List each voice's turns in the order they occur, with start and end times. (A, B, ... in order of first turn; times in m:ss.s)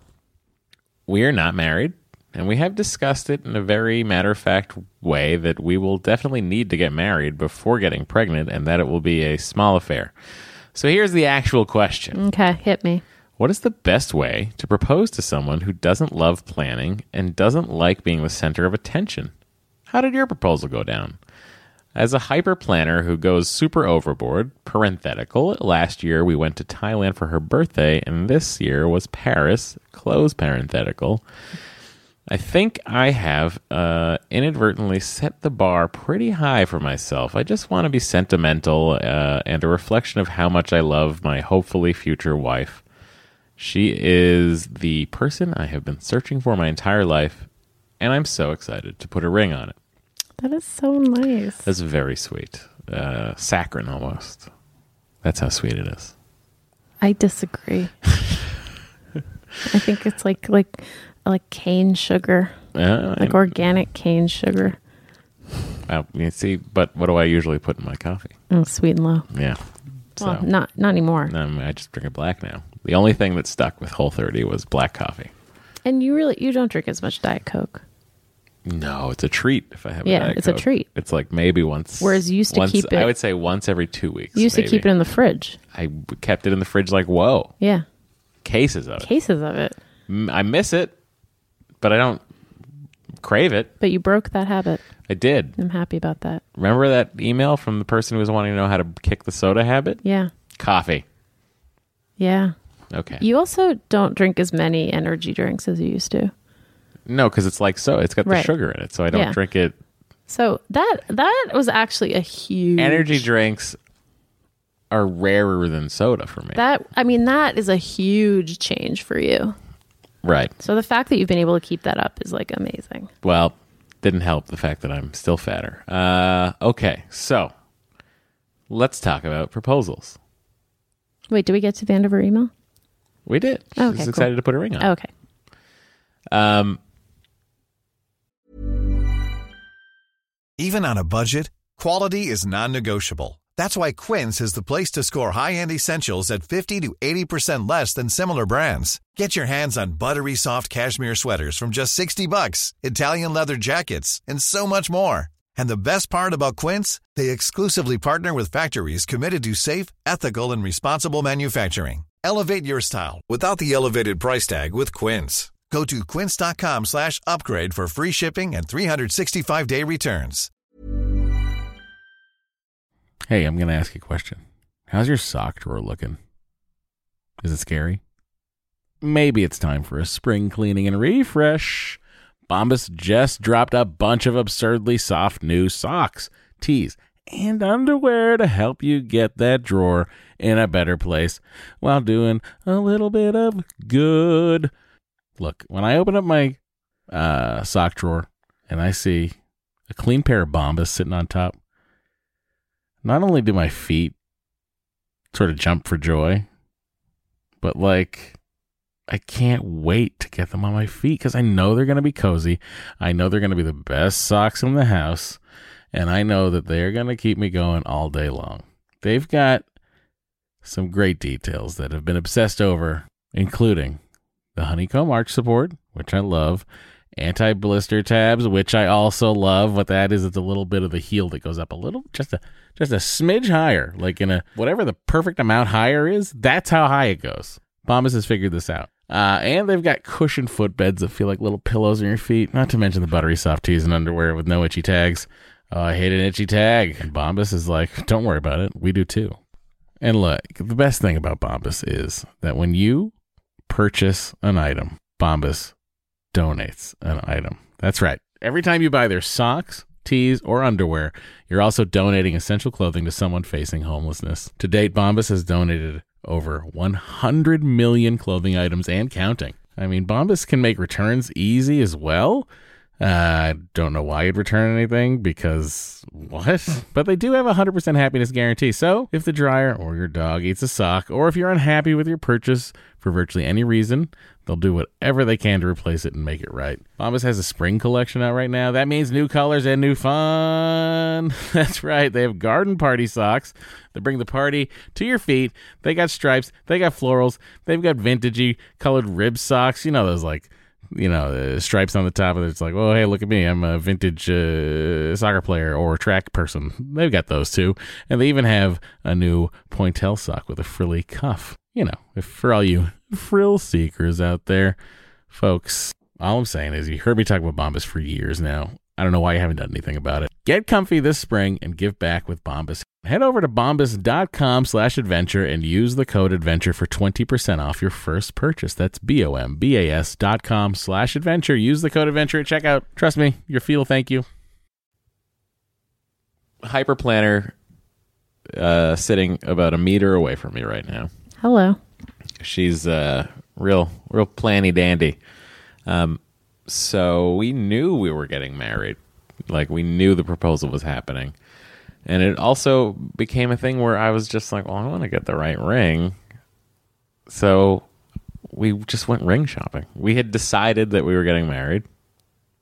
0:01.1-0:10.1 A
0:10.7-0:12.2 A
0:12.1-0:13.0 B
0:13.4-0:19.3 A
0:19.9-0:21.2 A
0:21.9-0:31.2 A
0:32.3-0:42.8 A
0:43.6-0:47.5 A
0:48.0-0:49.8 A
0:50.4-0:51.6 B
0:51.6-0:54.5 A
0:55.2-0:56.1 A
0:57.0-0:57.9 B
0:59.7-1:02.5 B
1:02.7-1:03.4 A
1:03.2-1:04.8 B
1:05.9-1:08.3 A
1:08.5-1:09.3 B
1:09.3-1:09.6 A
1:10.2-1:10.5 A
1:10.2-1:11.3 B
1:11.3-1:15.3 A
1:15.8-1:17.8 B
1:18.6-1:24.9 A
1:20.0-1:20.9 B
1:22.0-1:23.1 B
1:24.4-1:25.6 B
1:25.7-1:27.5 A
1:27.6-1:27.8 B
1:28.4-1:29.1 A
1:29.0-1:29.8 B
1:30.1-1:30.9 A
1:31.8-1:32.2 A
1:33.2-1:33.7 A
1:33.8-1:34.8 B
1:35.1-1:35.6 A
1:35.6-1:36.4 B
1:36.6-1:40.0 A
1:40.0-1:40.3 B
1:40.6-1:41.0 A
1:42.2-1:42.5 B
1:42.9-1:43.2 A
1:43.2-1:46.3 B
1:47.1-1:49.8 A
1:48.2-1:48.5 B
1:49.1-1:49.4 B
1:50.3-1:53.2 B
1:52.8-1:53.8 A
1:54.9-1:56.6 A
1:56.5-1:59.6 B
2:00.2-2:00.5 A
2:00.6-2:03.1 B
2:03.2-2:07.5 A
2:08.7-2:10.2 A
2:11.3-2:12.5 B
2:13.2-2:14.9 A
2:13.8-2:15.1 B
2:16.3-2:16.8 A
2:20.6-2:50.5 C
2:53.3-2:56.2 D
2:57.4-2:58.0 D
2:59.0-3:14.7 D
3:15.4-3:16.6 D
3:17.1-3:19.4 D
3:19.9-3:21.6 D
3:23.0-3:24.1 D
3:25.3-3:26.5 D
3:27.6-3:28.4 D
3:29.1-3:35.4 D
3:35.9-3:39.6 D
3:40.6-3:44.0 D
3:44.6-3:46.6 D
3:47.2-4:09.4 D
4:10.0-4:13.1 D
4:13.7-4:15.7 D
4:16.3-4:32.5 D
4:33.0-5:14.8 D
5:15.3-5:34.2 D
5:36.6-5:37.5 A
5:38.5-5:41.1 A
5:41.4-5:41.8 B
5:42.4-5:45.2 A
5:45.9-5:51.3 A
5:52.0-5:56.2 A
5:57.3-5:57.8 A
5:58.5-6:01.8 A